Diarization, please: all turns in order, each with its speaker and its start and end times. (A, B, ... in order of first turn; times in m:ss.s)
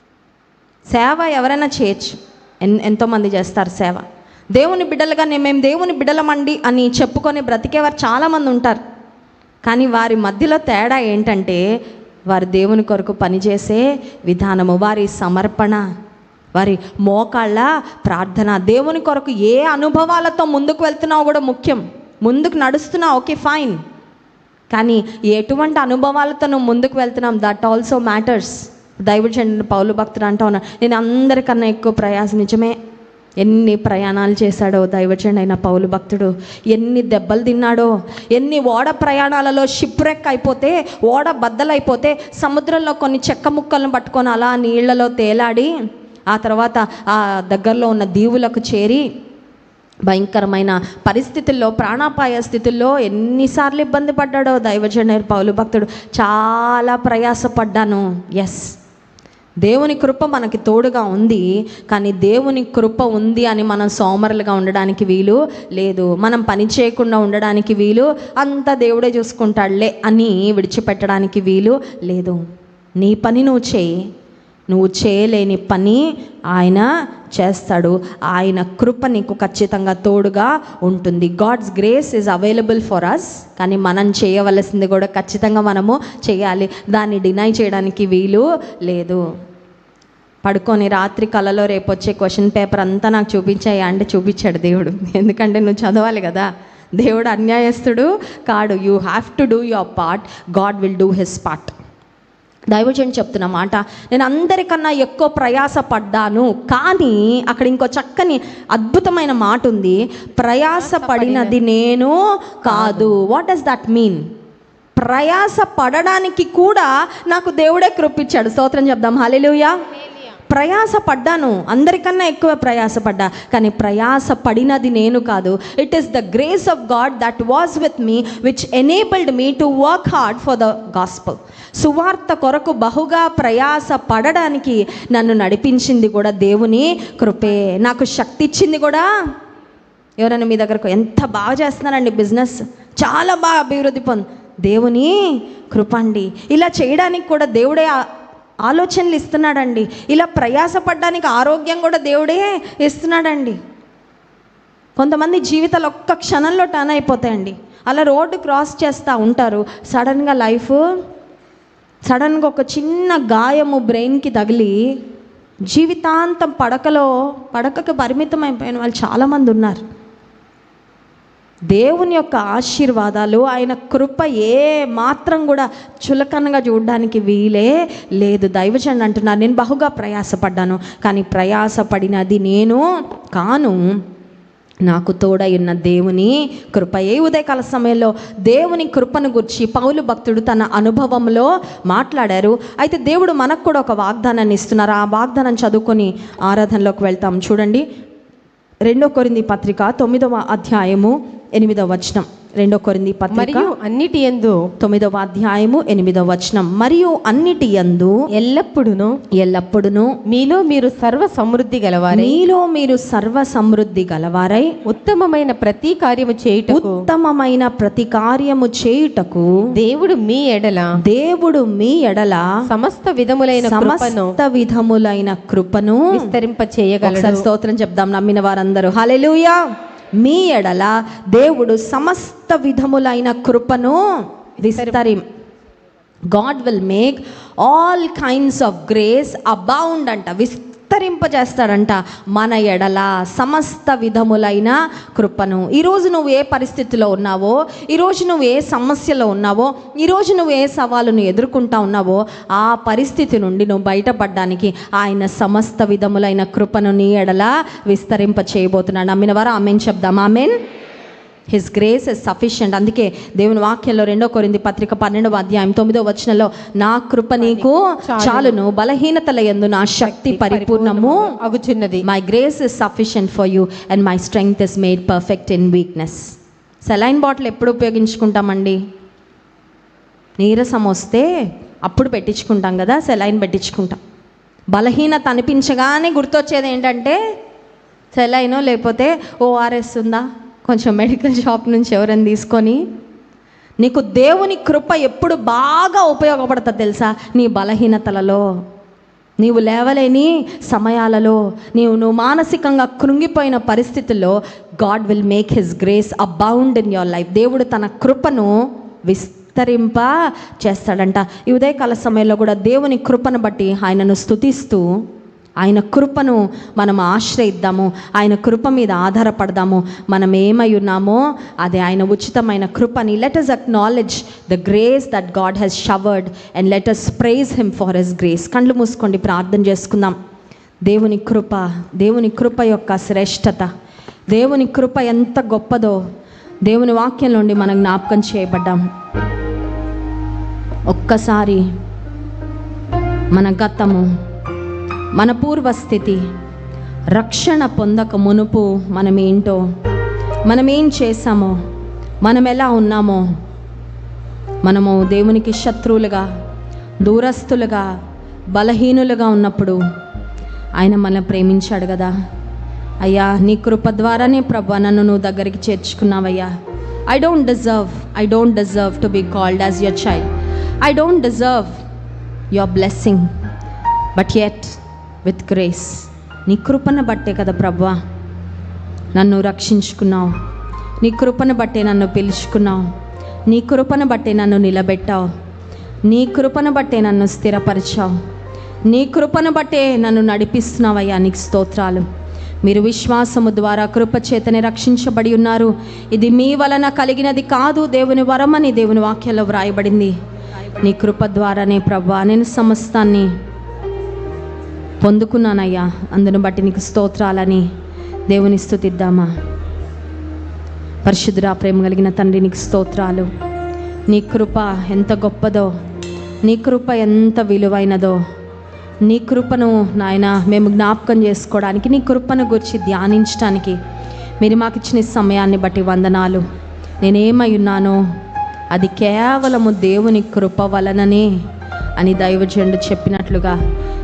0:00.9-0:08.8 A
0:09.6-0:11.6 A
0:12.3-0:15.8 A
0:16.6-0:23.8 A
0:24.7-0:32.8 A
0:33.4-0:45.7 A
0:46.3-0:49.1 A
0:50.1-0:58.7 A
0:59.6-1:12.4 A
1:13.0-1:14.0 A
1:14.7-1:29.2 A
1:30.4-1:41.7 A
1:42.7-1:54.2 A
1:50.8-1:51.5 B
1:52.7-1:53.2 B
1:55.0-2:19.1 A
2:20.2-2:28.0 A
2:28.6-2:33.6 A
2:35.0-2:40.8 A
2:42.1-2:44.8 A
2:45.7-2:49.8 A
2:51.7-3:03.8 A
3:04.9-3:17.8 A
3:18.8-3:23.7 A
3:23.3-3:24.7 B
3:24.8-3:28.2 A
3:28.3-3:29.2 B
3:29.3-3:30.2 A
3:30.3-3:32.4 B
3:32.1-3:34.8 A
3:34.8-3:37.0 B
3:36.7-3:39.5 A
3:39.8-3:41.0 B
3:41.0-3:42.5 A
3:42.7-3:44.4 B
3:43.6-3:46.3 A
3:46.1-3:47.4 B
3:47.0-3:49.6 A
3:50.2-3:54.0 A
3:54.6-3:55.2 A
3:54.7-3:55.0 B
3:56.3-4:20.6 A
4:21.5-4:31.3 A
4:27.4-4:28.6 B
4:30.0-4:32.0 B
4:32.0-4:36.3 A
4:36.8-4:38.8 A
4:40.4-4:41.3 A
4:41.9-4:44.0 A
4:44.7-4:47.2 A
4:48.1-4:52.8 A
4:53.8-4:58.4 A
4:59.4-5:08.5 A
5:09.1-5:14.8 A
5:15.6-5:30.2 A
5:30.9-5:33.7 A
5:34.3-5:36.0 A
5:36.7-5:38.8 A
5:40.9-5:41.6 A
5:43.3-5:44.1 A
5:45.2-5:46.2 A
5:47.1-5:49.6 A
5:50.5-5:51.6 A
5:52.2-5:53.2 A
5:54.6-5:56.3 A
5:57.0-5:57.9 A
5:58.5-5:59.8 A
6:00.8-6:02.1 A
6:03.0-6:06.5 A
6:07.1-6:10.3 A
6:10.8-6:11.7 A
6:12.5-6:13.3 A
6:14.2-6:18.0 A
6:19.2-6:20.3 A
6:21.0-6:22.8 A
6:23.5-6:25.3 A
6:26.1-6:28.1 A
6:28.9-6:32.0 A
6:32.6-6:40.1 A
6:40.8-6:43.3 A
6:45.0-6:47.6 A
6:48.3-6:49.3 A
6:51.1-6:53.3 A
6:54.1-6:55.7 A
6:56.4-6:58.2 A
6:59.1-7:03.8 A
7:04.4-7:06.4 A
7:07.0-7:08.0 A
7:08.7-7:11.3 A
7:12.0-7:13.6 A